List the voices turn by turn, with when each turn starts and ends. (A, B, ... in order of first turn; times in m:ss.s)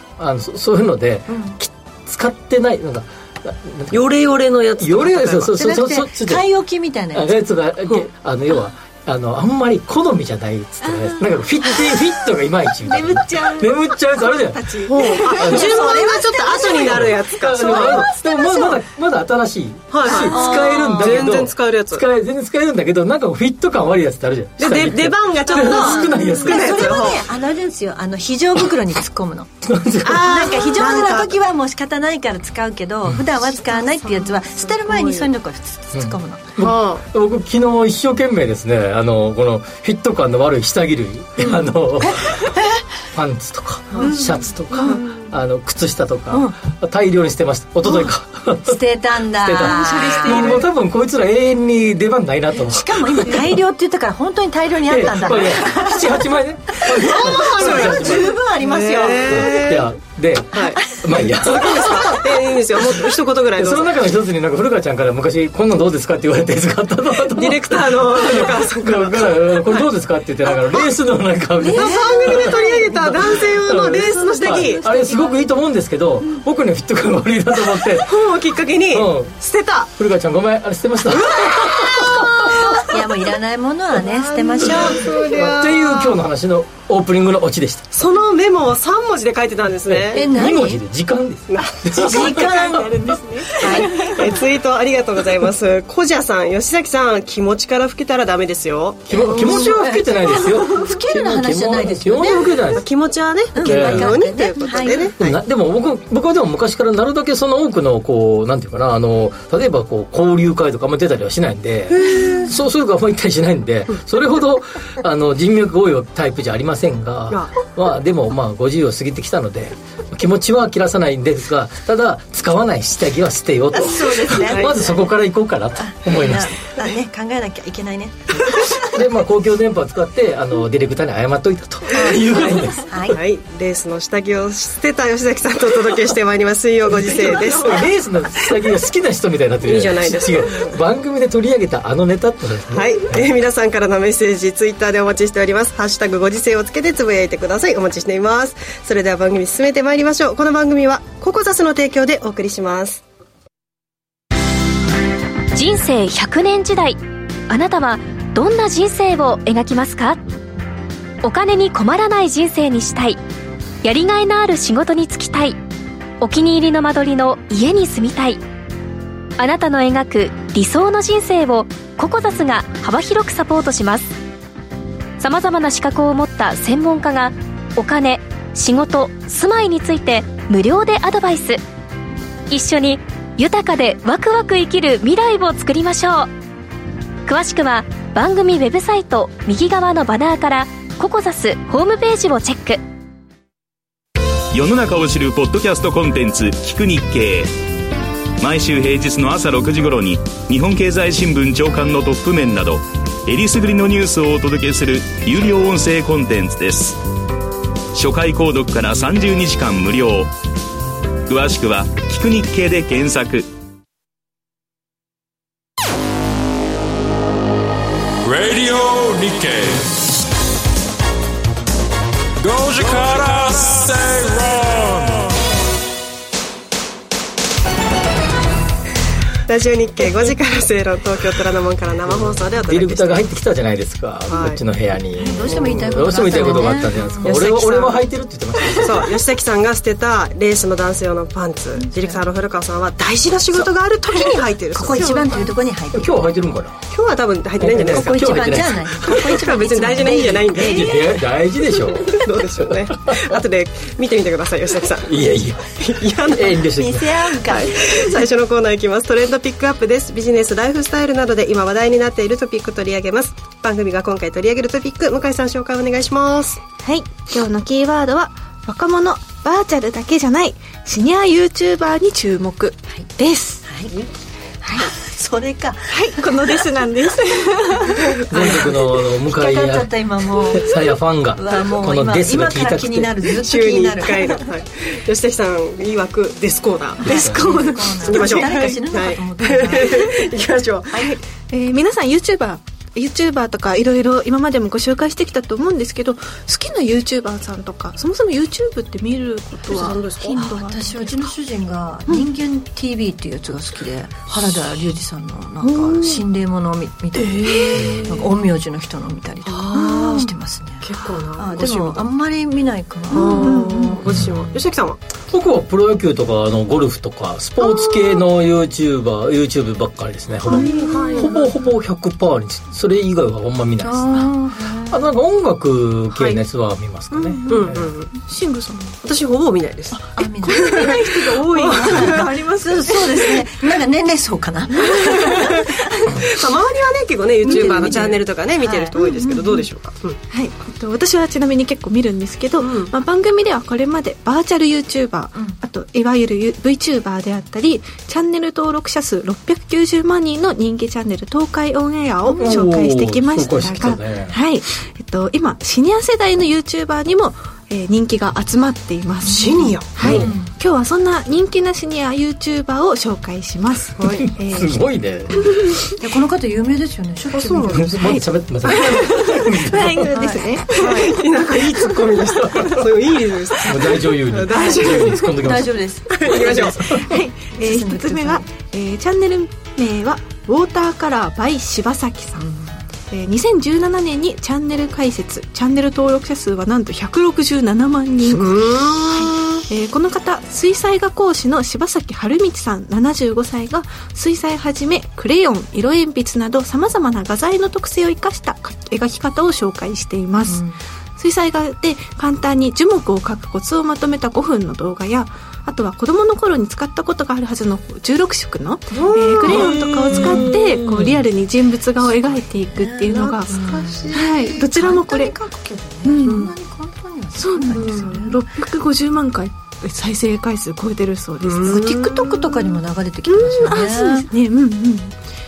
0:00.2-0:04.1 A
0:03.9-0:05.6 B
0:04.8-0:06.5 A
0:05.6-0:07.3 C
0:07.1-0:15.8 A
0:12.9-0:13.6 D
0:14.5-0:14.9 D
0:14.9-0:18.1 B
0:15.4-0:16.9 C
0:16.8-0:27.1 A
0:17.6-0:18.8 C
0:19.9-0:22.0 B
0:20.1-0:21.3 C
0:24.6-0:27.3 B
0:25.5-0:29.5 C
0:29.6-0:30.7 A
0:30.0-0:31.4 B
0:30.2-0:36.6 C
0:33.7-0:35.3 B
0:35.9-0:42.5 A
0:36.6-0:37.0 B
0:41.4-0:42.8 C
0:43.1-0:53.6 A
0:44.0-0:44.9 D
0:48.6-0:50.6 C
0:49.8-0:50.2 D
0:50.0-0:50.6 B
0:52.6-0:56.1 C
0:54.8-0:58.4 A
0:56.8-0:59.7 C
0:57.0-0:59.9 B
0:59.2-1:02.2 A
1:00.5-1:03.9 B
1:03.6-1:18.3 A
1:07.3-1:09.9 B
1:11.7-1:12.7 C
1:11.7-1:14.8 B
1:13.9-1:15.5 D
1:18.0-1:19.9 B
1:18.9-1:19.4 A
1:20.0-1:22.8 A
1:21.3-1:22.2 B
1:22.0-1:25.2 C
1:24.0-1:26.2 B
1:24.6-1:27.9 A
1:27.9-1:30.3 B
1:29.8-1:32.9 A
1:30.1-1:30.8 C
1:31.5-1:39.8 B
1:32.0-1:34.2 C
1:39.1-1:42.9 A
1:39.4-1:42.5 C
1:42.8-1:45.4 B
1:43.6-1:45.1 C
1:43.6-1:44.3 A
1:45.2-2:06.6 A
1:51.9-1:52.5 B
1:57.3-1:57.6 B
2:03.7-2:04.8 B
2:04.0-2:04.8 C
2:05.8-2:09.0 C
2:08.9-2:13.2 A
2:12.0-2:12.3 C
2:12.0-2:17.9 B
2:12.9-2:13.2 C
2:17.1-2:23.3 A
2:19.6-2:20.8 B
2:22.7-2:33.0 B
2:35.5-2:40.2 E
2:41.2-2:43.2 E
2:43.8-2:45.6 E
2:46.2-2:48.4 E
2:49.4-2:54.2 E
2:55.2-3:01.6 E
3:02.5-3:06.3 E
3:07.3-3:12.8 E
3:14.5-3:17.5 F
3:18.4-3:27.0 F
3:27.9-3:30.3 F
3:31.3-3:33.5 F
3:38.2-3:39.9 G
3:42.4-3:45.3 G
3:49.5-3:53.2 B
3:52.0-3:59.2 A
3:54.3-3:54.6 B
3:55.2-3:57.3 C
3:57.2-3:58.0 B
3:58.8-4:05.6 B
4:01.8-4:02.2 C
4:04.7-4:06.2 C
4:05.9-4:06.8 A
4:06.9-4:08.3 B
4:07.6-4:09.2 A
4:07.7-4:10.7 C
4:09.0-4:11.2 B
4:10.5-4:13.4 A
4:12.0-4:15.2 B
4:15.0-4:17.3 A
4:15.8-4:16.7 B
4:16.7-4:18.2 C
4:17.4-4:26.6 B
4:26.8-4:33.7 D
4:34.6-4:36.3 C
4:35.9-4:38.0 D
4:38.3-4:43.2 A
4:38.3-4:40.7 C
4:41.4-4:44.4 C
4:43.4-4:47.4 B
4:47.0-4:48.8 D
4:47.0-4:50.0 C
4:48.0-4:51.1 B
4:51.5-5:01.3 D
4:59.7-5:00.4 B
5:00.4-5:14.4 C
5:05.8-5:06.2 B
5:07.2-5:08.3 B
5:09.5-5:12.1 B
5:13.1-5:15.0 B
5:13.2-5:13.8 D
5:15.3-5:24.3 A
5:20.5-5:21.4 B
5:20.7-5:21.1 D
5:23.8-5:25.0 C
5:24.9-5:27.9 A
5:26.1-5:26.4 B
5:27.1-5:28.1 B
5:28.2-5:29.0 D
5:29.0-5:32.3 B
5:30.1-5:36.0 C
5:30.4-5:33.4 D
5:35.2-5:40.2 B
5:37.4-5:39.0 C
5:37.5-5:38.1 D
5:39.0-5:39.6 D
5:40.3-6:04.8 D
5:42.6-5:42.9 B
5:52.3-5:54.4 A
5:59.3-6:00.2 B
5:59.3-6:00.5 C
6:00.0-6:00.3 A
6:04.0-6:04.3 B
6:04.4-6:05.6 A
6:06.0-6:08.2 C
6:07.3-6:08.9 B
6:07.8-6:10.1 A
6:08.1-6:11.2 D
6:10.1-6:11.1 C
6:10.7-6:15.4 B
6:11.9-6:12.8 A
6:13.6-6:15.8 A
6:14.6-6:18.5 C
6:16.1-6:17.0 B
6:17.1-6:22.5 D
6:22.4-6:22.8 C
6:23.1-6:40.6 D
6:28.3-6:29.6 B
6:40.4-6:40.8 C
6:41.2-6:53.6 D
6:48.9-6:50.6 B
6:52.3-6:58.4 C
6:53.1-6:54.5 B
6:54.1-6:55.3 D
6:56.0-6:56.5 D
6:57.4-7:01.9 D
6:57.8-6:58.2 B
7:01.4-7:02.6 B
7:01.6-7:04.3 C
7:03.3-7:05.2 D